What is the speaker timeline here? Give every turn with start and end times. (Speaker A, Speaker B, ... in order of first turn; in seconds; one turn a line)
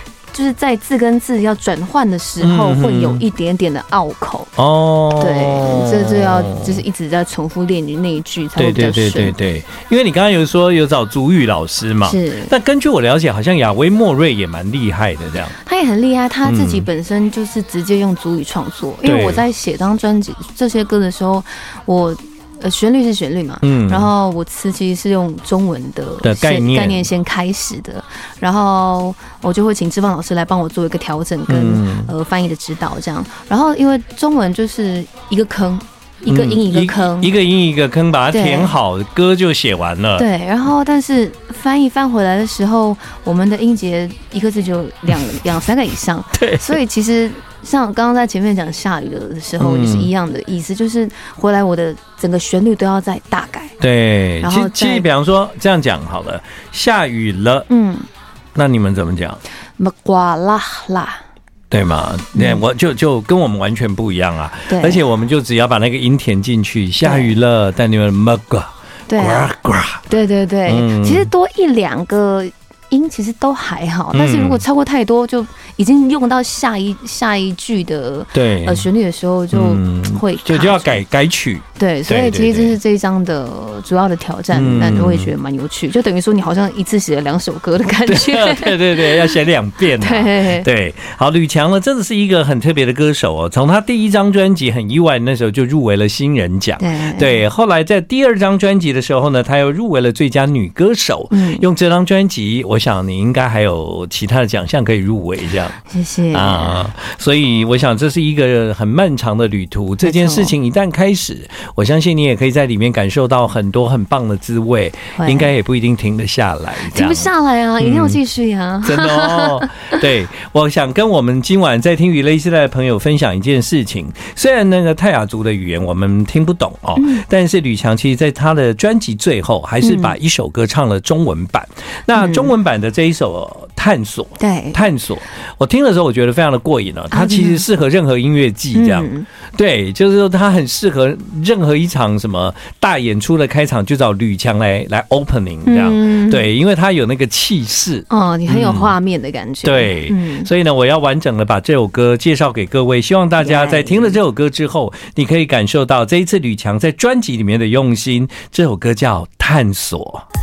Speaker A: 0.3-4.5
Speaker B: 2.4-3.2
Speaker B: 4.6-6.8
Speaker A: 5.2-9.4
Speaker B: 8.6-15.6
Speaker A: 12.0-12.5
Speaker A: 15.6-37.3
Speaker B: 16.4-16.9
Speaker B: 19.1-19.4
Speaker B: 23.6-24.1
Speaker B: 26.2-27.1
Speaker B: 31.5-32.1
Speaker B: 36.3-40.3
Speaker A: 38.3-38.8
Speaker A: 40.2-53.8
Speaker B: 46.4-46.8
Speaker B: 49.6-50.1
Speaker B: 53.8-57.7
Speaker A: 54.4-55.1
Speaker A: 57.7-58.1
Speaker B: 58.5-59.4
Speaker A: 59.8-61.2
Speaker B: 61.7-70.0
Speaker A: 62.3-62.6
Speaker A: 64.7-65.0
Speaker A: 67.0-67.3
Speaker A: 69.1-69.5
Speaker A: 70.1-81.0
Speaker B: 70.7-71.3
Speaker B: 74.1-74.6
Speaker B: 78.3-78.9
Speaker B: 79.5-82.8
Speaker A: 81.8-89.4
Speaker B: 84.5-85.3
Speaker B: 88.1-105.8
Speaker A: 90.0-90.7
Speaker A: 96.8-97.4
Speaker A: 101.3-101.7
Speaker A: 105.9-106.9
Speaker B: 106.3-117.3
Speaker A: 110.0-110.5
Speaker A: 115.2-115.5
Speaker A: 116.8-120.0
Speaker B: 117.8-118.2
Speaker B: 118.8-148.9
Speaker A: 127.0-127.2
Speaker A: 129.8-130.1
Speaker A: 132.2-132.5
Speaker A: 134.4-134.8
Speaker A: 137.1-137.6
Speaker A: 138.7-139.3
Speaker A: 145.7-146.5
Speaker A: 148.1-150.5
Speaker B: 149.6-160.2
Speaker A: 153.4-154.2